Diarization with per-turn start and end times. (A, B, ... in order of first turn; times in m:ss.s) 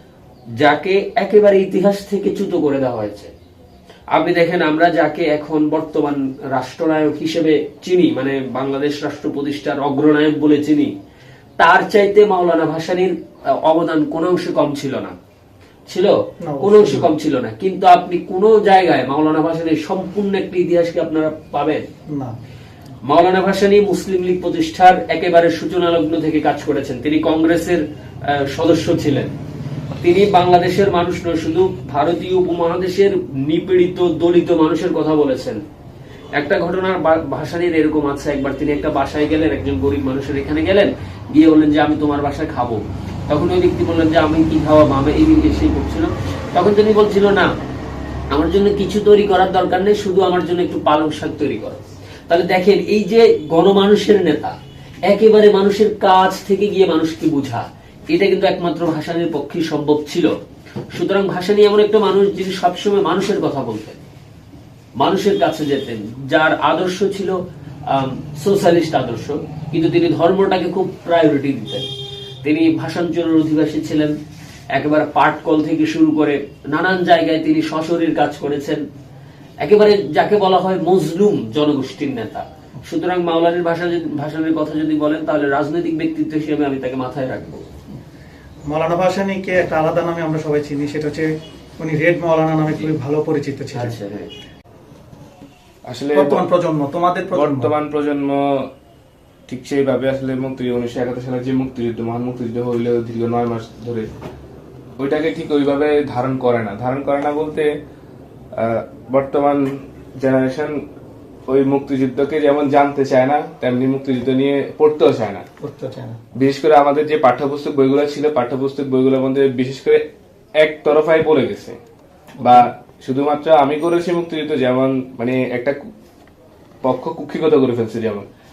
0:00.6-0:03.3 A
0:04.1-0:10.9 A
0:11.6-0:15.1 A
0:15.9-0:21.8 A
0:16.4-0:17.1 B
0:22.1-0:22.4 B
0:23.0-0:29.3 A
0:30.0-0:35.6 A
0:36.4-0:47.5 A
0:48.3-0:54.6 A
0:55.1-1:00.3 A
1:00.9-1:04.0 A
1:05.0-1:11.9 A
1:12.4-1:14.2 A
1:14.7-1:18.8 A
1:19.6-1:27.6 A
1:28.7-1:34.0 B
1:33.7-1:34.3 A
1:35.9-1:36.4 C
1:36.1-1:37.7 B
1:37.3-1:38.7 C
1:39.5-1:44.1 C
1:45.0-1:47.7 C
1:48.5-1:50.8 C
1:51.5-1:55.4 C
1:55.6-1:56.2 B
1:56.4-2:00.0 C
2:00.6-2:01.8 C
2:02.4-2:05.9 C
2:06.8-2:08.3 C